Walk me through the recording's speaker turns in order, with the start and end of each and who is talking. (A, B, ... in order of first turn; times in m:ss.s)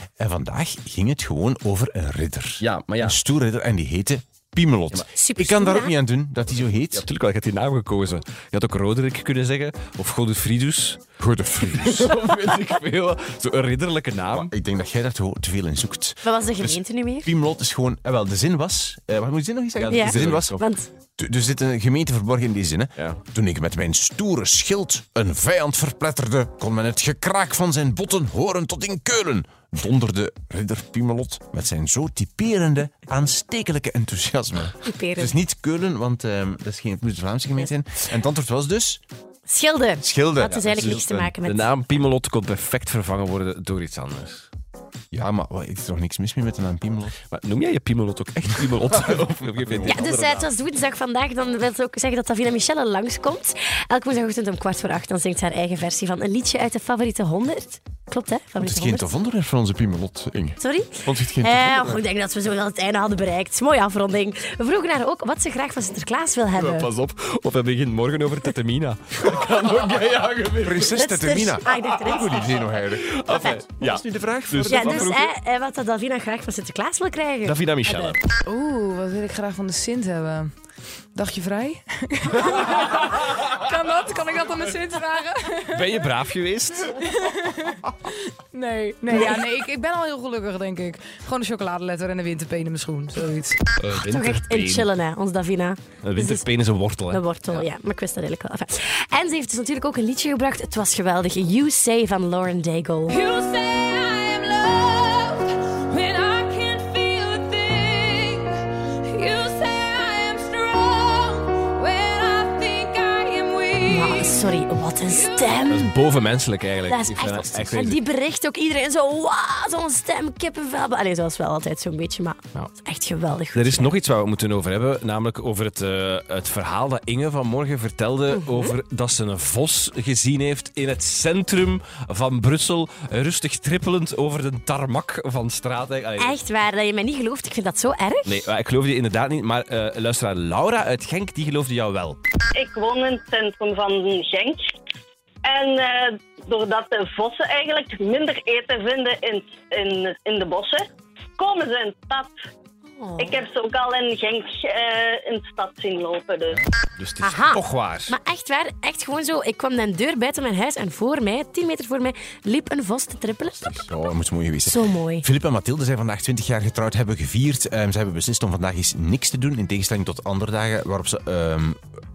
0:00.2-0:07.0 A
0:02.6-0:03.2 B
0:05.1-0:05.9 C
0:06.5-0:11.0 B
0:11.2-0:12.1 A
0:11.6-0:14.5 B
0:14.3-0:20.5 A
0:16.2-0:17.3 C
0:19.8-0:20.7 B
0:19.9-0:20.9 C
0:21.2-0:39.0 A
0:34.8-0:35.3 C
0:39.5-0:41.7 C
0:40.0-0:41.3 A
0:40.5-0:44.5 B
0:45.1-0:47.1 A
0:47.3-0:50.5 B
0:49.8-0:59.1 C
0:58.6-1:01.9 A
1:00.6-1:06.9 C
1:06.5-1:11.0 B
1:10.6-1:15.0 A
1:10.9-1:12.5 C
1:11.7-1:15.3 B
1:14.7-1:18.2 C
1:17.4-1:18.2 B
1:18.4-1:20.5 D
1:21.1-1:25.9 D
1:25.7-1:27.0 B
1:26.9-1:33.6 D
1:29.1-1:29.4 C
1:33.7-1:34.9 B
1:33.9-1:36.4 C
1:36.0-1:37.6 B
1:37.1-1:43.2 C
1:43.3-1:53.9 E
1:53.8-1:55.9 C
1:55.7-1:58.0 B
1:56.8-2:03.9 C
2:03.5-2:16.4 B
2:08.3-2:08.7 C
2:16.2-2:18.4 C
2:18.2-2:22.2 B
2:22.5-2:24.7 F
2:25.4-2:30.8 F
2:31.4-2:32.4 F
2:32.9-2:33.4 C
2:33.2-2:36.6 F
2:37.0-2:38.1 B
2:37.2-2:43.8 C
2:43.6-2:51.8 A
2:44.6-2:45.3 C